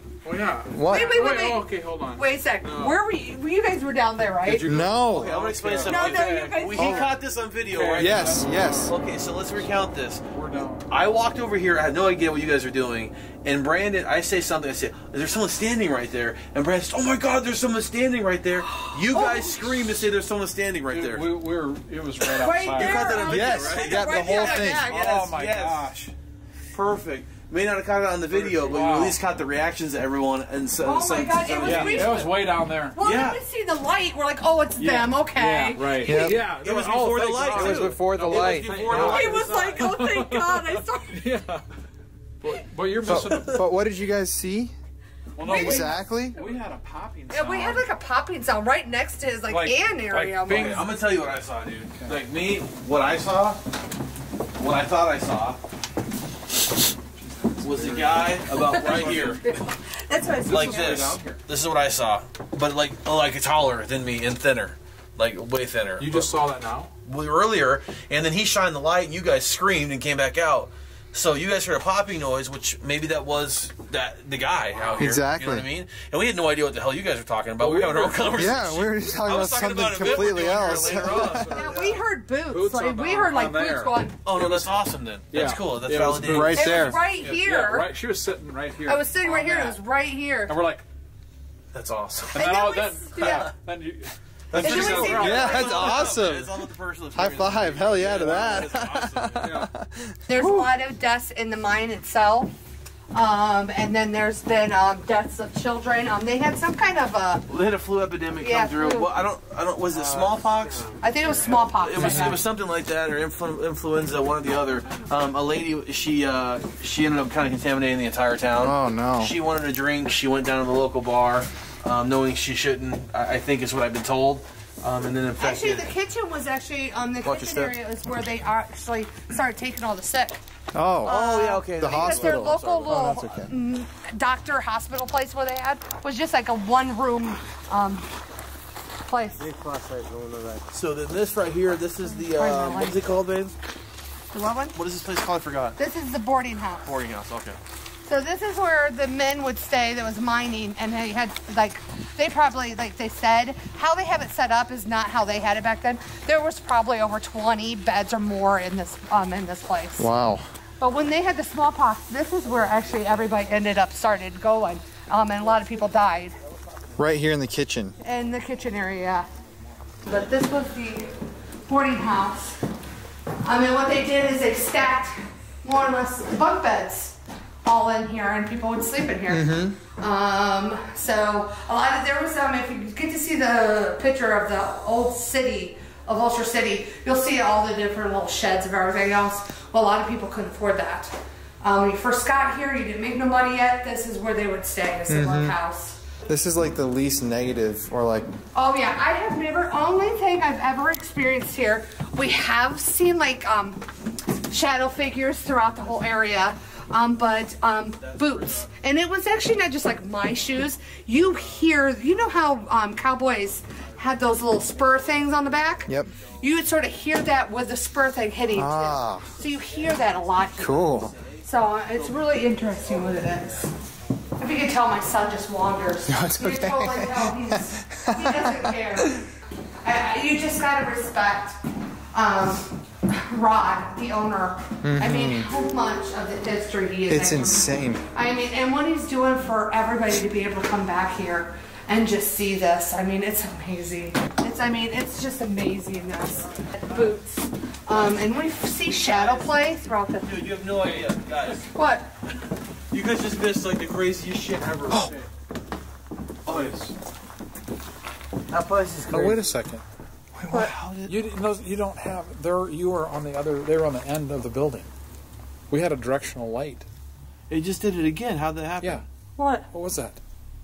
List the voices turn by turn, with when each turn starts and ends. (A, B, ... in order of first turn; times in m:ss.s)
0:00.2-0:03.0 A
0:00.7-0:01.2 B
0:00.9-0:04.8 C
0:04.4-0:06.9 A
0:04.6-0:05.4 B
0:05.1-0:10.3 D
0:05.8-0:07.1 C
0:06.8-0:07.1 B
0:07.7-0:09.0 A
0:08.0-0:08.9 B
0:10.3-0:10.9 A
0:10.9-0:21.3 D
0:18.8-0:19.8 C
0:20.9-0:26.1 A
0:22.2-0:25.9 D
0:22.4-0:25.1 C
0:23.2-0:24.9 B
0:26.7-0:32.2 D
0:28.3-0:29.2 A
0:30.8-0:36.2 C
0:31.6-0:33.0 A
0:33.0-0:33.4 D
0:34.8-0:41.6 A
0:36.0-0:36.4 B
0:36.4-0:39.9 D
0:37.5-0:39.0 B
0:38.9-0:41.3 C
0:42.4-0:43.7 A
0:43.0-0:44.7 B
0:43.2-0:43.5 D
0:45.4-0:47.9 A
0:45.4-0:46.0 C
0:45.4-0:46.4 B
0:47.3-0:50.8 C
0:49.5-0:50.9 A
0:50.5-0:53.6 D
0:54.6-0:55.6 D
0:57.2-0:59.5 A
0:57.6-0:59.4 D
0:58.6-1:01.1 C
1:00.4-1:01.4 A
1:00.5-1:06.4 D
1:06.0-1:06.9 A
1:07.0-1:21.7 D
1:15.0-1:15.7 B
1:17.6-1:18.6 A
1:18.4-1:21.6 B
1:20.0-1:23.9 A
1:21.5-1:24.2 C
1:24.2-1:26.7 D
1:25.3-1:29.8 A
1:26.2-1:27.0 B
1:26.6-1:27.9 C
1:28.8-1:30.6 C
1:30.5-1:30.8 A
1:31.7-1:32.5 D
1:32.4-1:33.5 C
1:32.4-1:35.9 A
1:33.2-1:33.5 D
1:34.5-1:39.5 D
1:34.6-1:36.2 C
1:34.6-1:36.5 B
1:37.1-1:40.7 B
1:39.4-1:39.7 A
1:40.3-1:42.5 C
1:43.1-1:47.5 C
1:47.5-2:05.9 D
1:48.4-1:49.1 C
1:50.0-1:51.0 E
1:51.0-1:52.4 C
1:51.3-1:52.4 A
1:58.6-1:59.4 B
2:05.4-2:10.4 C
2:07.2-2:07.8 D
2:10.7-2:13.5 B
2:11.0-2:18.1 C
2:11.1-2:13.0 D
2:19.1-2:19.4 C
2:19.4-2:20.7 E
2:20.7-2:23.6 D
2:22.2-2:23.0 C
2:24.3-2:24.8 C
2:24.7-2:25.8 D
2:25.8-2:26.9 C
2:26.8-2:27.6 D
2:28.1-2:40.1 C
2:40.0-2:40.4 B
2:40.8-2:46.4 C
2:47.0-2:48.0 B
2:48.0-2:49.3 C
2:50.0-2:51.1 C
2:51.7-2:52.6 C
2:53.4-3:16.0 C
2:59.3-2:59.8 B
3:15.1-3:15.6 B
3:16.3-3:18.3 B
3:18.5-3:23.8 C
3:24.5-3:40.8 C
3:27.8-3:28.8 D
3:31.1-3:31.8 D
3:33.7-3:36.7 D
3:35.9-3:36.1 B
3:38.5-3:39.3 B
3:38.8-3:43.8 D
3:40.6-3:41.2 B
3:41.4-3:43.7 C
3:44.4-3:49.2 C
3:46.1-3:49.2 B
3:49.8-3:51.6 C
3:52.1-4:10.4 C
3:54.8-3:55.5 B
3:57.1-3:58.0 B
4:09.0-4:09.7 D
4:10.2-4:11.7 D
4:11.7-4:12.1 C
4:12.9-4:15.2 D
4:14.9-4:15.2 B
4:14.9-4:15.3 A
4:16.4-4:16.8 D
4:16.4-4:17.0 A
4:18.5-4:19.4 E
4:18.5-4:19.4 D
4:19.1-4:19.8 A
4:20.4-4:20.7 B
4:20.5-4:21.2 D
4:21.0-4:24.9 A
4:25.7-4:26.9 A
4:27.5-4:29.0 D
4:29.4-4:29.7 C
4:29.7-4:30.2 A